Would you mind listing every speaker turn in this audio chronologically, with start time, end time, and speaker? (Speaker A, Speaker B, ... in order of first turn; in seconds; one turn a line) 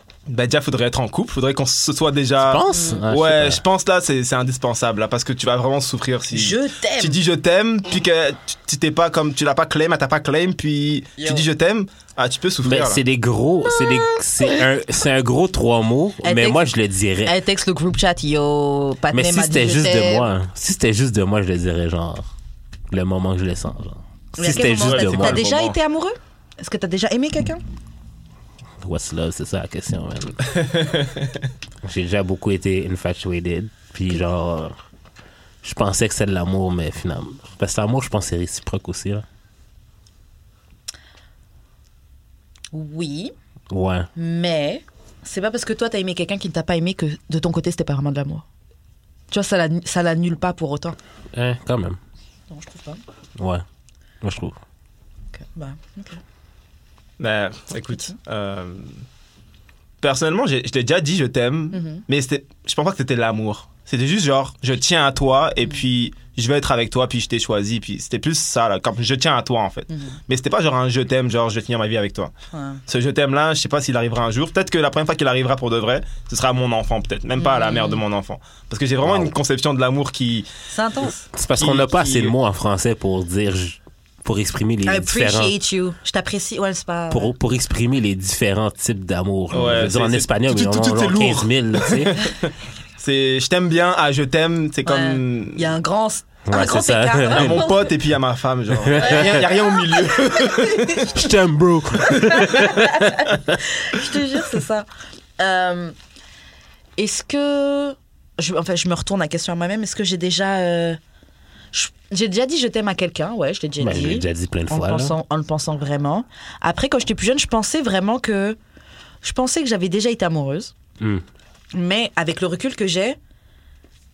Speaker A: 0.3-13.0
Speaker B: 2.4-3.6
Speaker C: 2.7-3.0
Speaker C: 6.3-7.2
Speaker C: 11.2-11.4
Speaker B: 12.6-17.3
Speaker C: 16.2-16.6
Speaker C: 17.2-20.3
Speaker B: 19.1-22.3
Speaker B: 22.9-25.4
Speaker C: 24.4-27.6
Speaker A: 24.4-25.8
Speaker B: 28.8-30.5
Speaker A: 30.8-31.3
Speaker B: 31.8-34.8
Speaker B: 35.6-39.2
Speaker C: 42.7-43.3
Speaker B: 43.7-44.1
Speaker C: 44.2-48.4
Speaker C: 49.3-51.0
Speaker B: 51.3-52.0
Speaker C: 52.5-53.0
Speaker B: 53.4-53.6
Speaker B: 54.2-54.6
Speaker C: 55.4-56.2
Speaker A: 57.2-59.0
Speaker A: 60.0-72.3
Speaker C: 61.7-62.0
Speaker C: 69.9-70.2
Speaker C: 72.5-72.8
Speaker A: 72.9-80.5
Speaker C: 77.4-78.0
Speaker B: 79.0-79.3
Speaker C: 80.7-81.2
Speaker B: 81.3-85.5
Speaker A: 81.6-82.3
Speaker C: 84.9-87.3
Speaker B: 87.1-92.3
Speaker A: 89.5-95.7
Speaker C: 94.8-97.9
Speaker B: 96.5-97.7
Speaker A: 97.3-101.2
Speaker B: 98.9-99.5
Speaker C: 99.0-101.1
Speaker B: 101.1-103.4
Speaker C: 102.1-104.9
Speaker C: 105.4-106.0
Speaker C: 107.0-111.0
Speaker C: 111.7-118.6
Speaker B: 113.8-115.1
Speaker C: 119.2-120.7
Speaker C: 121.7-123.2